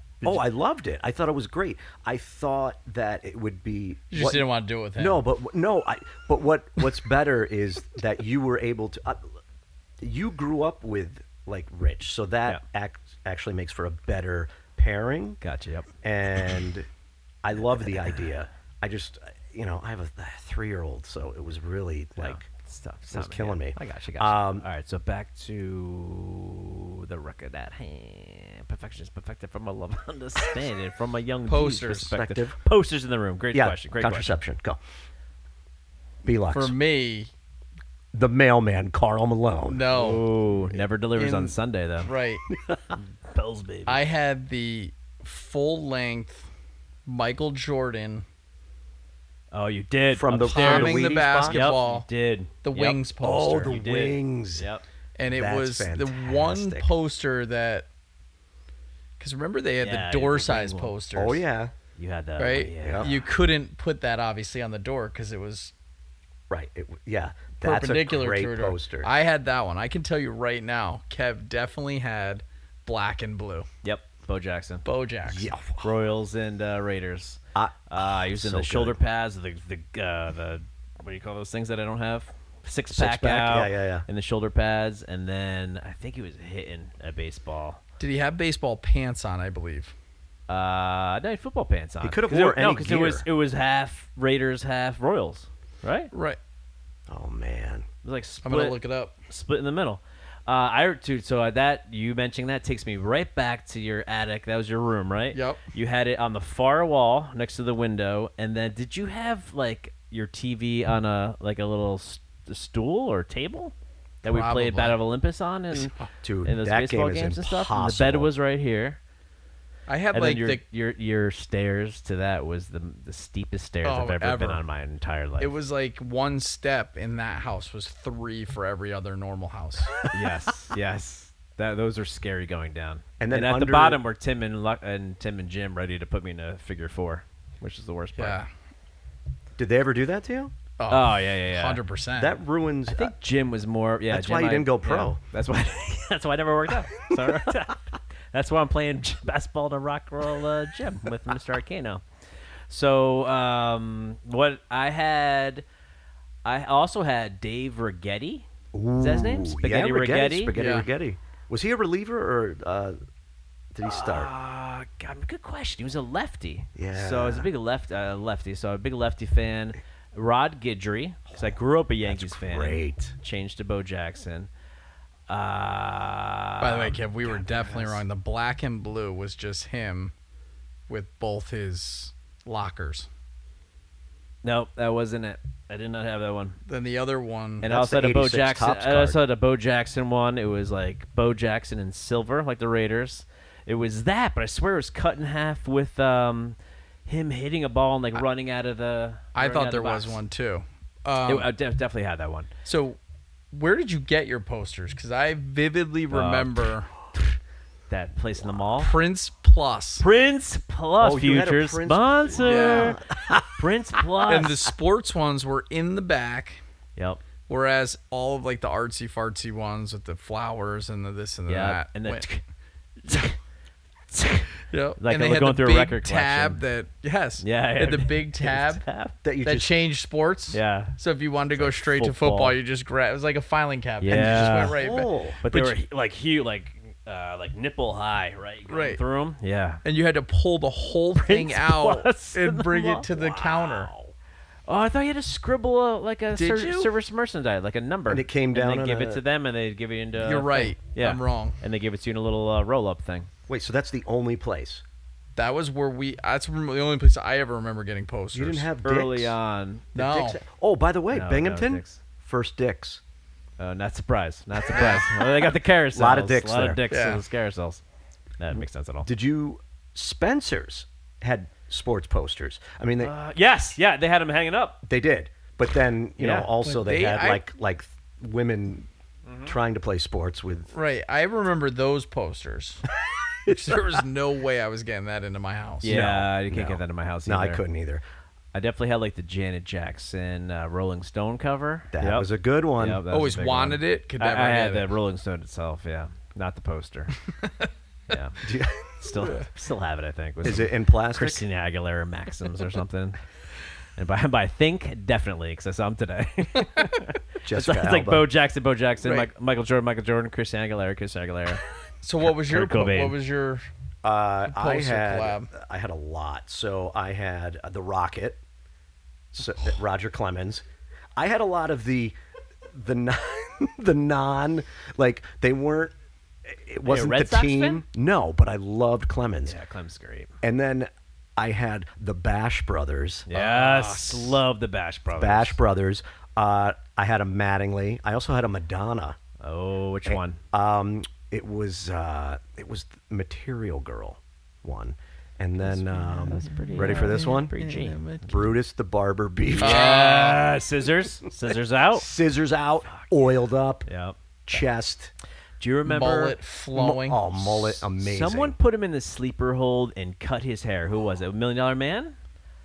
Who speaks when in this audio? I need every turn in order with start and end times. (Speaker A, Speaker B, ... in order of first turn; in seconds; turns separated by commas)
Speaker A: 0.2-4.5, Speaker B: 4.1-5.2, Speaker A: 5.0-9.3, Speaker A: 10.0-15.4, Speaker C: 15.4-15.9, Speaker A: 16.0-16.9, Speaker A: 17.4-22.5, Speaker C: 22.2-34.4, Speaker A: 23.1-24.7, Speaker B: 31.5-32.1, Speaker A: 32.1-32.6, Speaker A: 33.5-34.8, Speaker A: 36.2-36.7, Speaker B: 36.5-37.3, Speaker A: 38.1-39.9, Speaker B: 39.7-40.2, Speaker C: 39.9-42.1, Speaker B: 41.2-42.5, Speaker A: 42.5-43.0, Speaker C: 43.2-44.0, Speaker B: 43.9-46.5, Speaker B: 47.1-48.2, Speaker C: 49.5-53.0, Speaker A: 50.1-51.7, Speaker B: 50.5-52.1, Speaker B: 52.6-53.8, Speaker A: 53.2-54.7, Speaker C: 53.7-54.8, Speaker B: 55.2-57.9, Speaker A: 55.3-56.9, Speaker B: 59.2-61.4, Speaker C: 59.8-61.0, Speaker A: 61.1-61.7, Speaker C: 62.0-63.2, Speaker B: 62.4-65.7, Speaker A: 62.8-63.1, Speaker A: 66.5-69.2, Speaker B: 67.6-73.7, Speaker C: 73.8-74.8, Speaker B: 74.8-75.5, Speaker A: 75.2-75.9, Speaker C: 75.8-87.8, Speaker A: 77.5-79.0, Speaker A: 82.9-84.1, Speaker B: 88.0-89.9, Speaker C: 90.5-96.1, Speaker A: 92.0-93.3, Speaker B: 96.1-96.4, Speaker A: 97.1-97.9, Speaker C: 98.0-119.0, Speaker B: 98.4-99.2, Speaker B: 105.3-105.6, Speaker B: 114.2-115.0, Speaker A: 115.7-118.3, Speaker B: 119.9-120.6, Speaker C: 120.1-125.5, Speaker B: 123.8-124.6, Speaker B: 125.4-130.1, Speaker C: 130.1-138.4, Speaker A: 133.2-134.0, Speaker B: 138.2-138.5, Speaker A: 139.6-140.5, Speaker B: 140.8-142.4, Speaker C: 140.9-141.8, Speaker A: 142.2-143.1, Speaker C: 142.9-152.0, Speaker A: 144.1-145.2, Speaker C: 152.7-155.7, Speaker C: 156.4-158.5, Speaker A: 158.7-163.0, Speaker C: 159.0-160.5, Speaker B: 160.5-160.9, Speaker A: 163.7-164.3, Speaker C: 163.8-174.5, Speaker A: 166.8-167.5, Speaker A: 171.3-173.2, Speaker C: 175.3-178.0, Speaker B: 176.6-180.1, Speaker B: 180.9-183.1, Speaker C: 184.4-186.6, Speaker B: 186.7-187.7, Speaker A: 187.6-189.2, Speaker C: 187.6-200.2, Speaker B: 199.3-201.5, Speaker C: 201.3-202.5, Speaker B: 202.7-203.0, Speaker B: 203.5-206.9, Speaker C: 206.1-206.7, Speaker C: 207.9-208.9, Speaker B: 208.8-210.1, Speaker C: 210.0-214.6, Speaker A: 211.0-213.6, Speaker B: 212.4-213.0, Speaker B: 214.3-216.6, Speaker C: 217.0-217.2, Speaker B: 217.5-222.3, Speaker C: 221.5-222.4, Speaker C: 223.1-223.4, Speaker C: 224.1-226.6, Speaker B: 224.7-228.8, Speaker C: 227.4-229.2, Speaker A: 229.2-229.8, Speaker B: 229.4-235.8, Speaker C: 230.5-230.9, Speaker C: 231.5-232.6, Speaker C: 234.0-234.8, Speaker A: 234.1-235.4, Speaker C: 235.4-239.8, Speaker B: 238.7-239.0, Speaker B: 239.8-243.9, Speaker C: 241.2-243.1, Speaker A: 243.1-244.1, Speaker C: 244.7-253.3, Speaker B: 246.3-246.9, Speaker A: 248.1-249.2, Speaker B: 250.2-251.6, Speaker A: 253.5-254.8, Speaker B: 255.4-258.7, Speaker A: 258.3-259.4, Speaker C: 258.8-259.9, Speaker B: 259.9-260.4, Speaker A: 260.0-263.0, Speaker C: 261.1-262.0, Speaker C: 263.6-267.8, Speaker B: 264.7-265.1, Speaker A: 265.9-266.8, Speaker B: 266.9-267.2, Speaker C: 268.4-269.1, Speaker A: 269.1-273.1, Speaker C: 273.0-274.8, Speaker A: 274.8-278.9, Speaker C: 276.2-276.5, Speaker B: 276.6-277.4, Speaker C: 279.3-279.6, Speaker A: 279.5-280.7, Speaker B: 280.7-282.9, Speaker A: 283.5-283.8, Speaker B: 283.5-285.9, Speaker C: 285.8-287.6, Speaker A: 285.8-288.0, Speaker C: 288.5-297.2, Speaker A: 291.9-293.0, Speaker B: 293.1-294.9, Speaker C: 298.1-303.2, Speaker A: 298.4-298.9, Speaker B: 299.2-299.5, Speaker A: 300.4-301.4, Speaker C: 304.0-311.6, Speaker A: 307.4-308.3, Speaker B: 309.0-309.3, Speaker B: 312.0-313.7, Speaker C: 312.2-313.2, Speaker A: 314.0-318.4, Speaker B: 314.5-315.5, Speaker A: 319.3-320.6, Speaker A: 321.2-322.1, Speaker A: 322.7-325.9, Speaker A: 326.4-329.6, Speaker C: 326.9-327.8, Speaker C: 329.4-330.3, Speaker A: 330.4-333.3, Speaker C: 333.3-335.6, Speaker B: 333.3-334.4, Speaker A: 335.2-339.2, Speaker C: 339.4-340.4, Speaker A: 340.1-347.5, Speaker B: 346.1-348.5, Speaker C: 346.2-348.0, Speaker A: 348.3-350.2, Speaker C: 349.6-352.1, Speaker B: 349.6-350.5, Speaker A: 351.9-353.9, Speaker C: 353.9-354.2, Speaker A: 354.5-355.1, Speaker C: 355.6-356.4, Speaker B: 355.9-357.2, Speaker A: 356.7-358.6, Speaker C: 357.4-362.2